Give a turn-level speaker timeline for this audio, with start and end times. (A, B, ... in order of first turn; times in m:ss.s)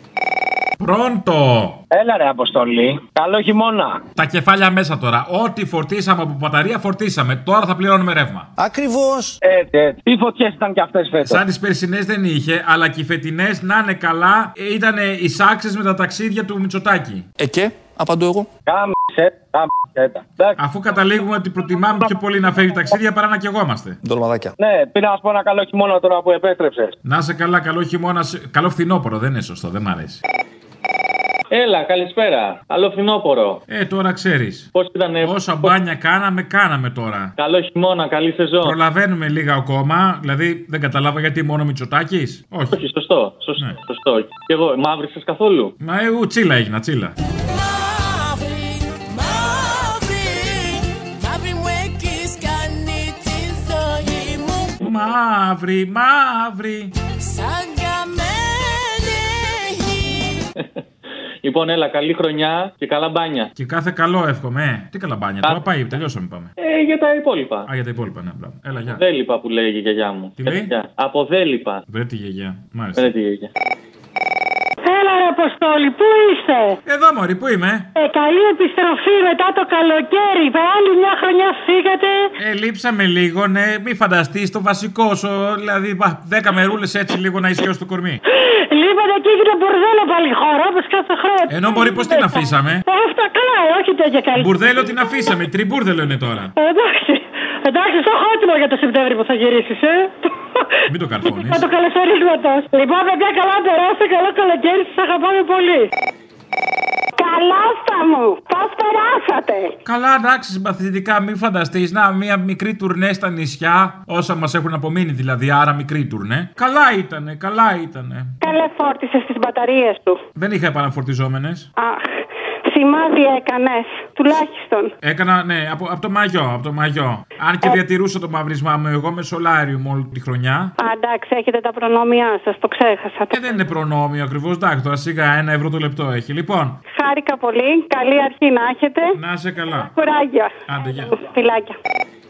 0:00.8-0:01.8 A
0:02.1-0:03.1 B
0:04.2-0:08.5 A
0:08.6-0:09.4 C
0:10.2-0:11.3 B
0:11.2-0:17.2 A
0:17.4-0:18.5 C
0:20.6-0:24.0 A
0:24.0-0:24.5 C
0:24.8-0:26.7 B
0:27.0-0:30.2 A
0:31.5-0:33.6 D
0:33.7-0:34.7 A
0:34.7-0:35.7 D
0:35.2-0:37.3 A
0:37.4-0:38.8 D
0:38.6-0:42.8 A
0:42.7-0:45.7 D
0:45.8-0:47.1 A
0:47.5-0:54.8 E
0:54.8-0:56.9 A
0:57.3-1:00.4 E
1:01.4-1:03.5 D
1:03.6-1:06.5 A
1:06.6-1:07.6 D
1:07.6-1:09.0 A
1:08.8-1:11.8 D
1:10.4-1:10.7 A
1:11.9-1:13.1 A
1:12.9-1:13.5 D
1:14.8-1:16.8 F
1:16.8-1:17.9 A
1:18.0-1:22.3 F
1:22.4-1:28.2 A
1:28.3-1:35.1 F
1:31.5-1:32.8 A
1:34.3-1:36.5 A
1:36.6-1:40.1 F
1:40.9-1:41.6 A
1:41.2-1:45.9 F
1:47.2-1:49.7 F
1:49.8-1:58.4 A
1:58.4-2:00.2 F
2:00.4-2:01.7 A
2:01.8-2:02.1 F
2:02.7-2:04.9 F
2:05.0-2:10.7 A
2:10.8-2:13.6 F
2:13.3-2:16.8 A
2:16.9-2:19.2 F
2:19.1-2:19.9 A
2:19.7-2:21.8 F
2:20.7-2:21.2 A